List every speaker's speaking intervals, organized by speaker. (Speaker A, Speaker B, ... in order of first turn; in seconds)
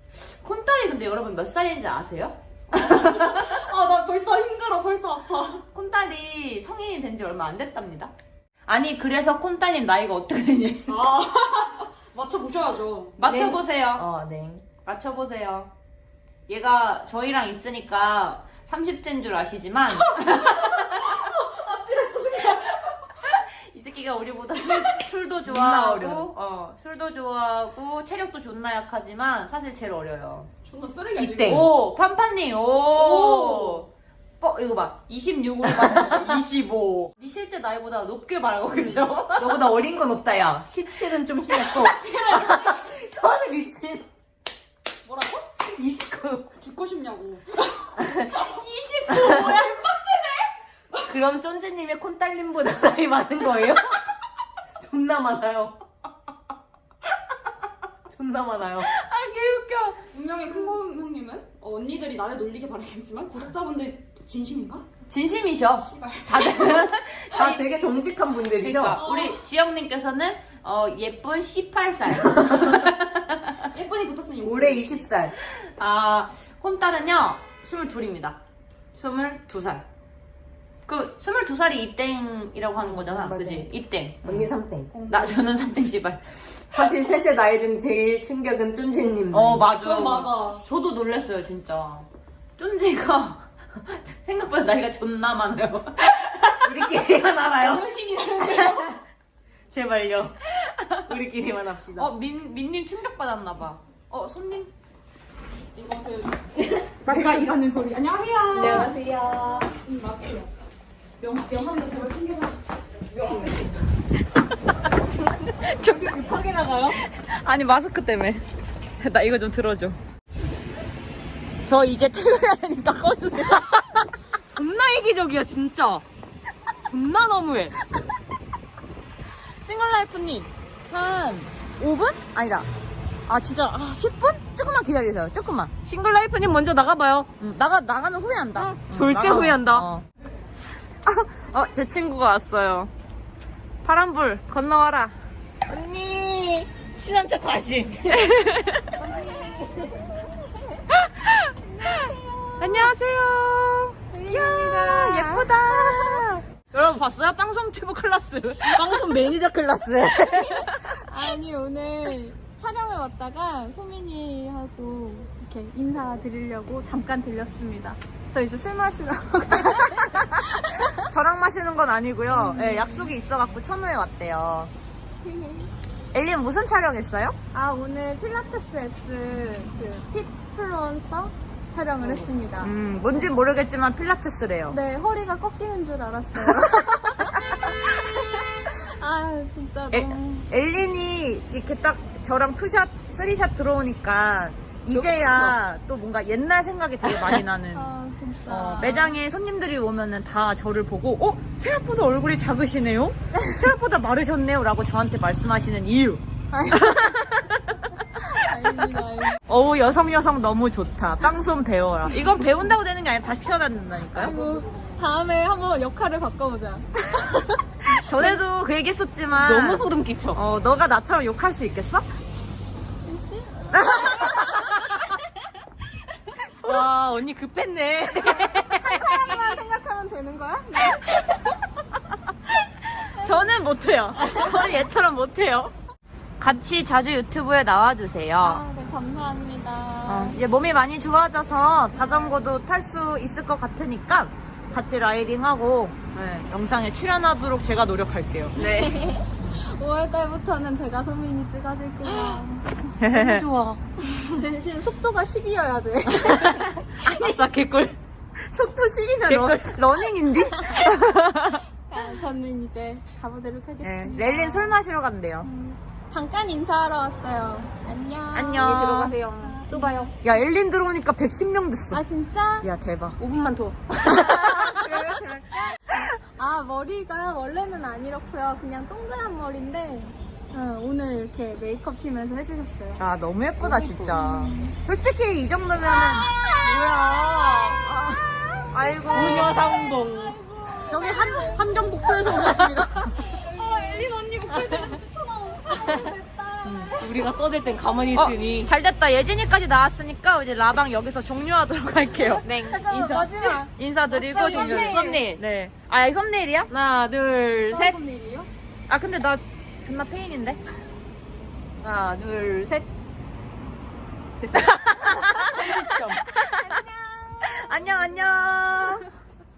Speaker A: 0.2-3.5, 5.7-8.1, 8.7-11.0, 13.2-14.1, 14.8-15.7, 16.5-21.1, 23.1-30.5, 31.4-33.9, 34.4-39.6, 48.3-49.5, 58.8-60.0, 65.1-67.9, 68.6-73.6, 75.4-78.4, 78.9-79.8, 80.8-84.5, 85.1-86.7, 89.3-96.9, 100.5-101.0, 101.9-104.7, 116.9-118.4, 119.0-120.0, 121.7-124.1, 129.6-132.7, 133.3-135.7, 137.4-140.1, 141.0-142.9, 143.8-145.2, 147.0-147.4, 148.0-149.0, 150.9-159.0, 160.3-160.8, 169.5-174.7, 176.1-177.3, 182.0-184.8, 186.3-188.8, 189.9-197.9, 198.5-207.8, 208.7-214.5, 217.8-222.1, 223.8-224.6, 232.9-235.7, 236.4-238.6, 240.1-248.8, 253.0-253.5, 257.0-257.3, 258.5-261.6, 263.8-265.5, 268.3-269.1, 270.2-272.0, 272.6-273.2, 274.5-275.1, 283.0-286.3, 287.8-288.2, 288.7-289.6, 290.8-293.2, 296.6-296.9, 298.1-306.7, 308.9-310.6, 314.5-316.8, 317.4-319.1
Speaker B: 2.7-5.6, 10.9-13.2, 20.1-23.0, 30.6-31.7, 33.0-33.8, 41.5-42.9, 45.0-45.5, 46.6-51.0, 60.1-64.9, 65.8-66.9, 68.9-69.4, 73.6-75.0, 84.9-85.4, 89.8-90.7, 97.6-99.0, 105.8-106.4, 107.0-109.0, 109.8-110.5, 111.2-112.6, 113.2-113.5, 293.4-295.9, 307.7-308.5
Speaker C: 13.2-14.6, 25.4-26.3, 31.1-31.7, 35.6-36.5, 39.4-44.0, 45.6-46.5, 48.0-48.4, 49.1-49.6, 50.9-54.0, 54.8-55.8, 58.1-58.9, 67.3-69.0, 72.3-72.9, 74.4-75.3, 82.8-83.7, 84.2-84.9, 86.7-89.7, 96.6-98.9, 99.7-100.4, 101.0-102.1, 106.8-107.4, 108.5-109.8, 113.3-113.6, 115.5-117.0, 124.5-126.0, 126.8-127.8, 135.8-137.3, 138.6-139.8, 145.7-148.3, 149.0-150.1, 158.6-160.5, 194.9-195.6, 219.4-220.4, 226.4-229.4, 253.1-254.2, 256.2-258.0, 259.3-260.0, 268.6-270.1, 273.2-274.7, 283.6-284.2, 286.3-288.0, 289.1-290.4, 292.4-292.8, 297.0-298.7, 302.4-303.6, 304.3-305.4, 306.7-308.0, 311.8-312.9, 314.4-316.2
Speaker D: 150.2-150.8, 151.6-152.9, 154.1-156.2, 160.4-170.9, 172.3-173.1, 175.2-175.7, 177.5-183.3, 184.7-190.5, 197.7-199.2, 206.5-207.1, 208.1-209.4, 214.1-218.3, 223.0-224.9, 228.2-231.2, 233.2-233.5, 234.2-234.7, 238.4-240.4, 241.9-242.3, 248.6-252.9, 254.1-257.2, 260.4-260.9, 261.9-264.8, 265.4-268.8, 269.4-270.1, 271.9-272.7, 274.1-283.0, 284.1-284.8, 285.9-295.0, 295.6-298.3, 302.2-305.2, 316.4-319.0